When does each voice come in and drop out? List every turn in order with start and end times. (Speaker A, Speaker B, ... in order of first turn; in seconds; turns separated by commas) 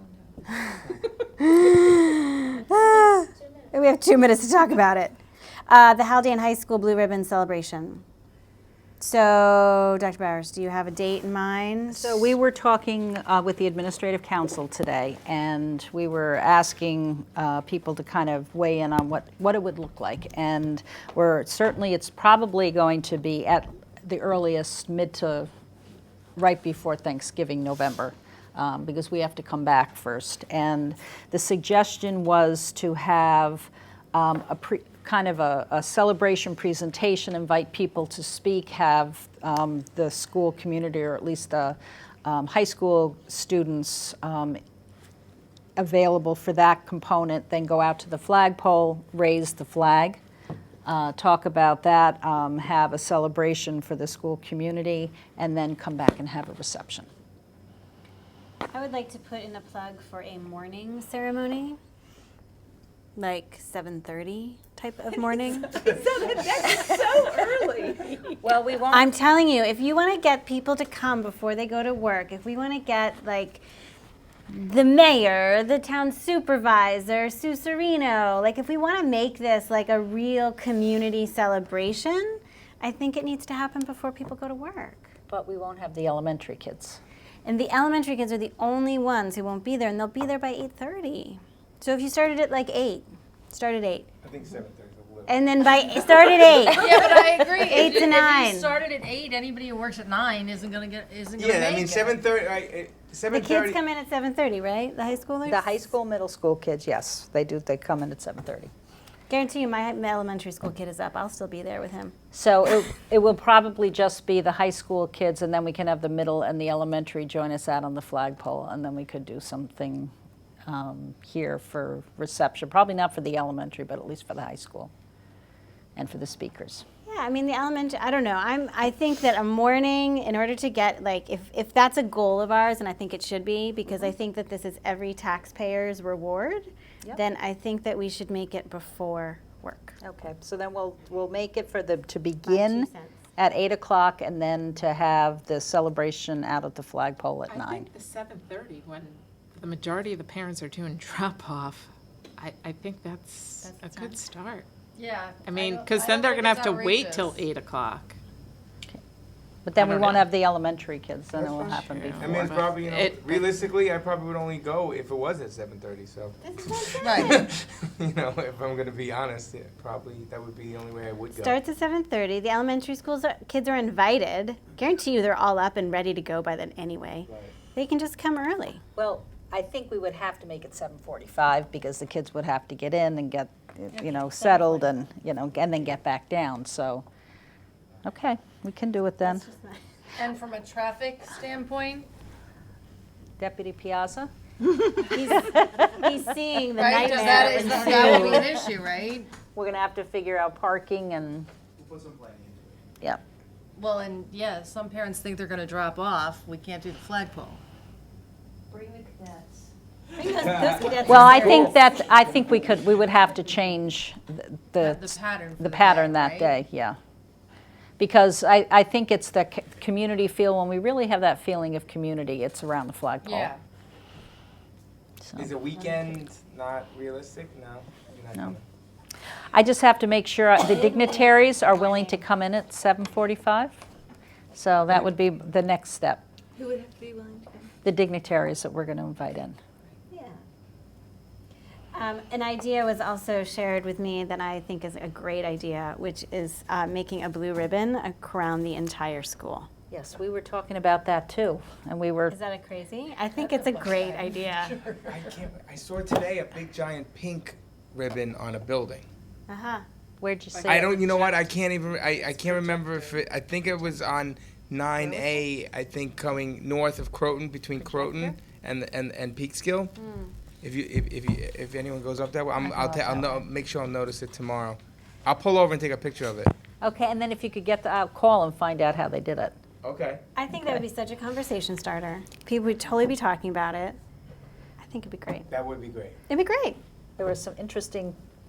Speaker A: 0.5-8.0, Speaker A: 9.0-12.3, Speaker B: 11.9-25.5, Speaker B: 26.4-44.6, Speaker B: 45.8-50.2, Speaker B: 50.9-57.1, Speaker A: 58.7-61.8, Speaker A: 63.2-66.0, Speaker C: 65.8-68.2, Speaker B: 68.4-69.1, Speaker A: 68.9-73.7, Speaker A: 74.5-85.2, Speaker B: 85.3-87.0, Speaker A: 87.5-94.1, Speaker D: 94.2-95.4, Speaker A: 95.3-98.8, Speaker E: 96.7-102.2, Speaker D: 101.4-103.8, Speaker A: 103.3-105.8, Speaker B: 105.5-108.7, Speaker A: 109.3-112.1, Speaker B: 112.3-120.1, Speaker B: 120.7-124.9, Speaker B: 126.0-126.8, Speaker A: 127.1-140.0, Speaker B: 140.0-147.9, Speaker A: 142.4-143.2, Speaker C: 147.5-154.7, Speaker A: 153.6-154.2, Speaker E: 154.9-157.4, Speaker C: 155.4-158.2, Speaker B: 159.7-162.7, Speaker C: 159.8-160.3, Speaker C: 161.7-163.4, Speaker D: 162.2-166.4, Speaker A: 166.4-167.5, Speaker E: 167.0-167.4, Speaker D: 167.1-171.6, Speaker A: 171.3-178.8, Speaker D: 177.3-177.5, Speaker B: 179.0-187.1, Speaker E: 184.0-184.8, Speaker B: 188.0-189.4, Speaker A: 189.2-189.8, Speaker E: 190.2-192.1, Speaker B: 193.4-196.1, Speaker A: 195.1-198.5, Speaker E: 196.8-199.3, Speaker B: 197.6-198.6, Speaker B: 199.5-201.5, Speaker D: 201.8-202.8, Speaker E: 203.8-207.6, Speaker B: 208.9-209.5, Speaker A: 210.2-211.8, Speaker D: 210.3-211.5, Speaker B: 211.0-217.0, Speaker E: 214.8-216.6, Speaker B: 218.0-223.5, Speaker E: 223.2-223.6, Speaker B: 225.2-225.5, Speaker D: 225.4-228.6, Speaker B: 229.5-233.7, Speaker A: 231.0-232.2, Speaker B: 234.6-236.2, Speaker E: 236.6-237.7, Speaker B: 237.8-239.6, Speaker A: 240.1-240.4, Speaker A: 241.9-249.7, Speaker B: 249.9-252.3, Speaker A: 252.3-254.8, Speaker E: 253.4-255.4, Speaker D: 255.1-259.1, Speaker A: 259.5-259.9, Speaker B: 260.2-261.0, Speaker C: 260.5-261.5, Speaker D: 260.7-269.9, Speaker C: 262.2-263.1, Speaker A: 270.0-270.3, Speaker D: 270.6-276.5, Speaker B: 272.6-273.3, Speaker B: 276.8-279.5, Speaker D: 279.8-280.2, Speaker A: 280.4-284.0, Speaker B: 280.5-280.8, Speaker A: 284.8-285.5, Speaker D: 285.5-286.2, Speaker A: 286.3-286.8, Speaker B: 287.2-288.2